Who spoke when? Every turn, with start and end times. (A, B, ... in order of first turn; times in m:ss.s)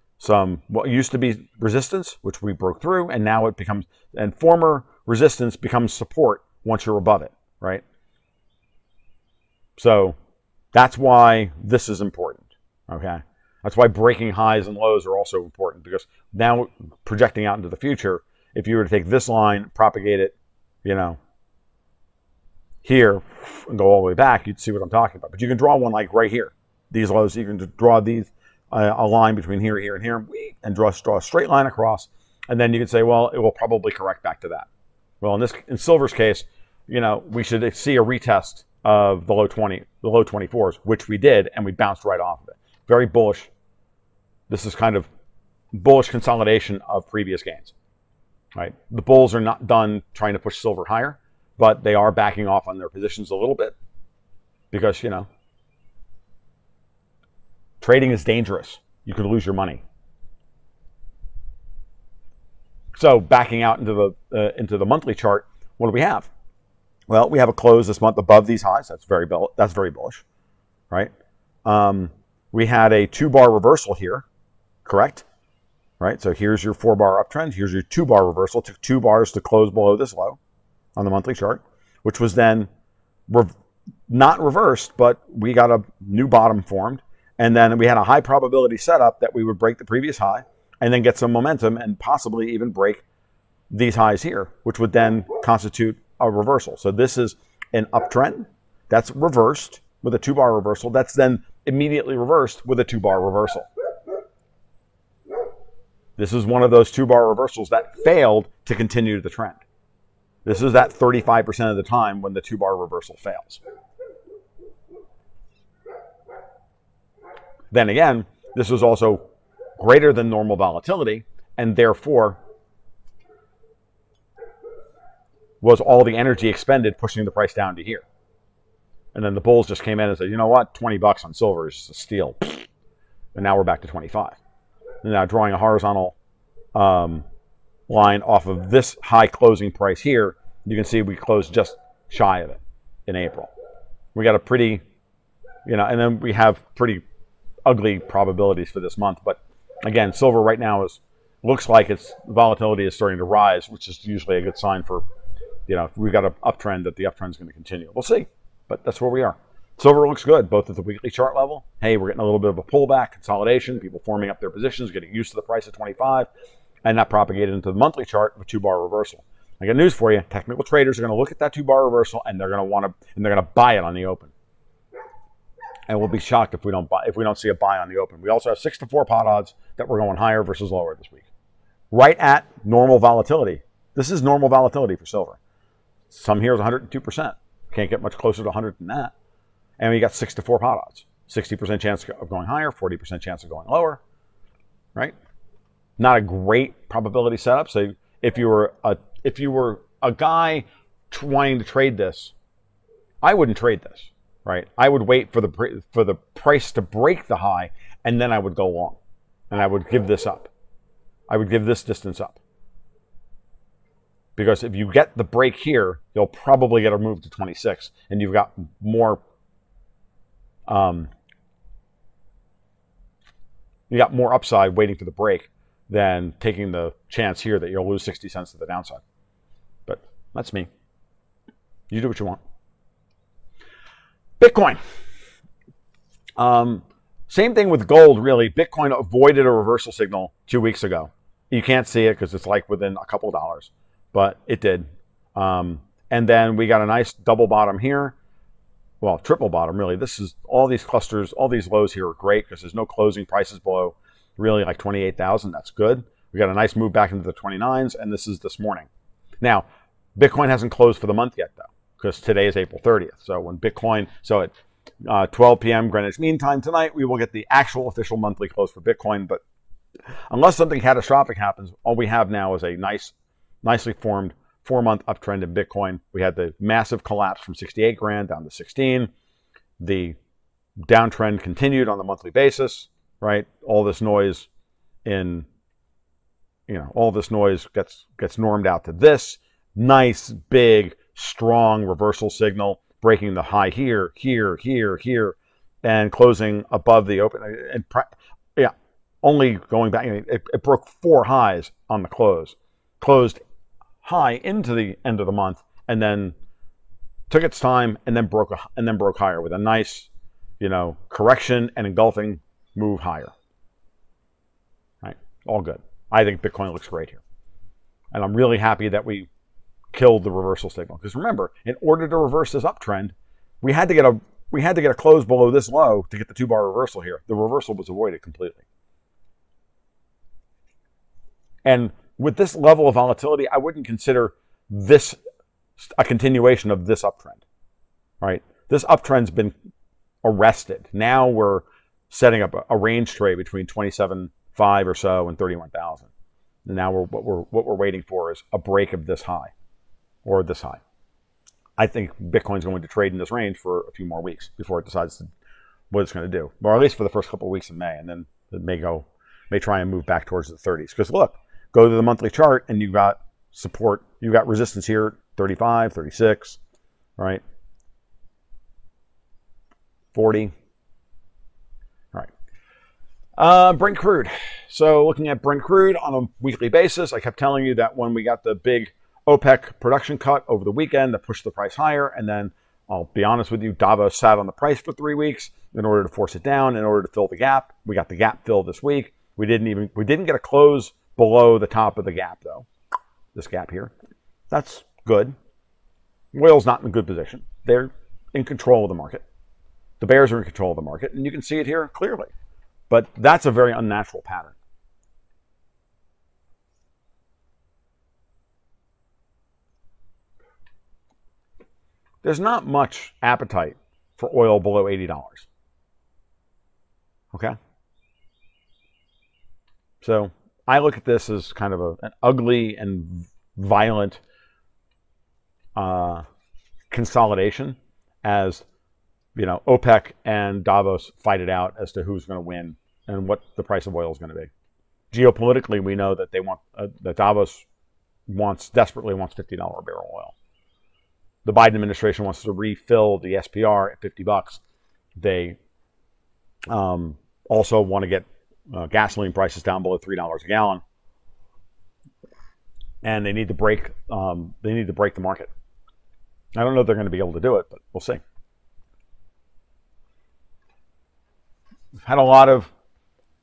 0:00.2-0:07.8 A
0:09.8-0:10.2 A
0:10.7-0:21.2 A
0:22.8-0:34.7 A
0:35.2-0:43.5 A
0:44.5-0:45.1 A
0:45.7-0:47.7 A
0:48.5-0:53.7 A
0:54.7-0:55.3 A
0:57.8-0:59.8 A
1:02.9-1:06.3 A
1:07.1-1:10.2 A
1:11.6-1:14.2 A
1:14.8-1:15.2 A
1:16.0-1:20.4 A
1:21.0-1:22.7 A
1:24.1-1:33.0 A
1:33.7-1:43.6 A
1:46.2-1:49.6 A
1:50.4-1:53.6 A
1:57.7-1:59.2 A
1:59.8-2:02.4 A
2:05.6-2:08.0 A
2:09.1-2:12.6 A
2:13.3-2:14.4 A
2:15.0-2:16.1 A
2:16.7-2:17.2 A
2:17.9-2:23.5 A
2:24.1-2:24.8 A
2:25.6-2:27.0 A
2:27.6-2:35.0 A
2:35.7-2:46.3 A
2:46.8-2:54.3 A
2:55.9-3:01.2 A
3:01.9-3:05.4 A
3:06.1-3:09.1 A
3:09.8-3:14.0 A
3:16.0-3:22.3 A
3:23.2-3:29.0 A
3:29.5-3:30.5 A
3:31.3-3:32.4 A
3:34.4-3:39.2 A
3:40.7-3:41.1 A
3:43.9-3:49.0 A
3:49.9-3:50.7 A
3:51.9-3:52.4 A
3:54.4-3:54.8 A
3:56.4-4:08.1 A
4:09.0-4:18.9 A
4:20.2-4:24.5 A
4:25.0-4:29.4 A
4:30.3-4:39.1 A
4:39.8-4:40.2 A
4:40.8-4:44.5 A
4:45.0-4:45.5 A
4:46.7-5:03.4 A
5:04.0-5:06.3 A
5:07.3-5:10.1 A
5:10.6-5:13.3 A
5:15.0-5:17.2 A
5:18.1-5:19.3 A
5:19.9-5:28.6 A
5:31.6-5:35.2 A
5:35.8-5:37.4 A
5:38.2-5:39.5 A
5:40.2-5:46.1 A
5:46.6-5:49.5 A
5:50.2-5:50.8 A
5:51.8-5:55.3 A
5:55.9-6:06.6 A
6:10.1-6:10.5 A
6:13.4-6:32.7 A
6:33.3-6:33.9 A
6:34.5-6:35.3 A
6:36.3-6:39.2 A
6:40.0-6:42.3 A
6:42.9-6:44.6 A
6:52.2-6:55.5 A
7:00.0-7:04.2 A
7:05.8-7:06.2 A
7:06.9-7:08.6 A
7:09.3-7:14.5 A
7:15.1-7:17.6 A
7:18.3-7:20.3 A
7:21.4-7:24.6 A
7:25.2-7:25.6 A
7:26.7-7:30.8 A
7:33.0-7:35.5 A
7:36.6-7:38.2 A
7:42.0-7:42.7 A